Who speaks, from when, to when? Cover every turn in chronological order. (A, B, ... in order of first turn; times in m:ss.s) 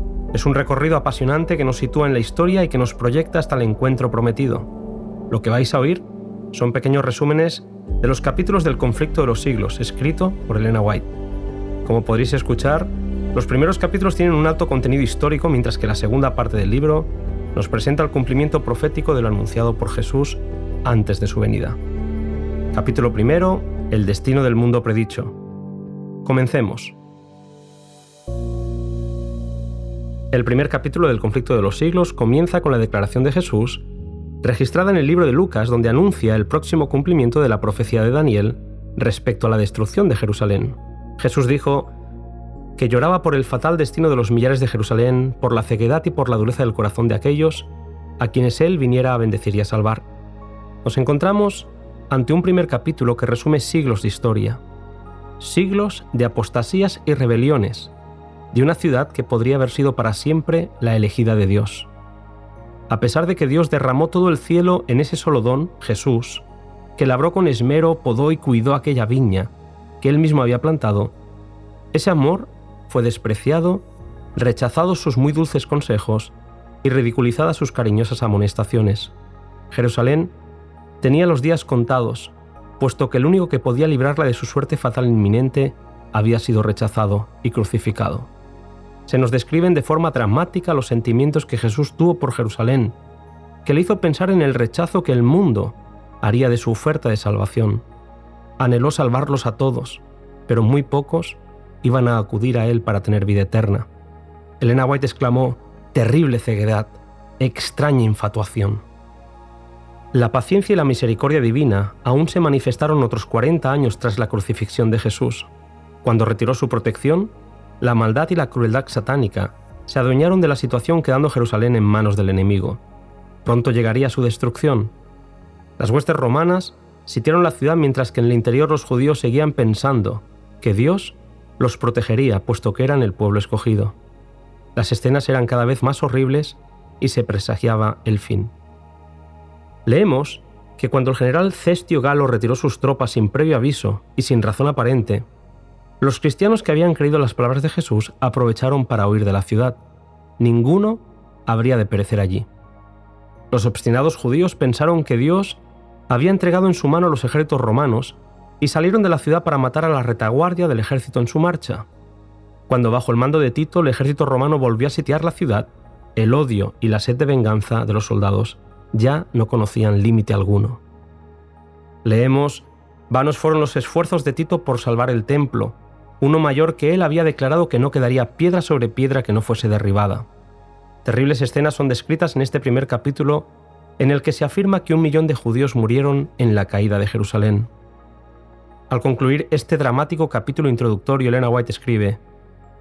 0:00.3-0:04.7 A
0:05.3-0:11.1 A
0:11.8-0:21.8 A
0:22.7-0:25.3 A
0:26.2-0:27.0 A
0:30.3-0:33.8 A
0:34.4-0:41.9 A
0:42.8-0:50.0 A
0:50.8-0:54.6 A
0:55.4-0:57.9 A
0:58.5-1:01.9 A
1:02.9-1:06.4 A
1:07.0-1:11.2 A
1:11.9-1:19.1 A
1:19.7-1:20.3 A
1:21.0-1:28.3 A
1:29.1-1:33.0 A
1:33.6-1:37.8 A
1:38.6-1:43.9 A
1:44.6-1:48.8 A
1:50.1-1:55.5 A
1:56.0-2:02.8 A
2:03.4-2:04.9 A
2:05.8-2:14.0 A
2:14.8-2:18.5 A
2:19.9-2:25.2 A
2:26.0-2:29.8 A
2:30.4-2:32.5 A
2:33.5-2:41.9 A
2:42.7-2:50.8 A
2:52.0-3:00.3 A
3:01.0-3:07.7 A
3:08.9-3:12.2 A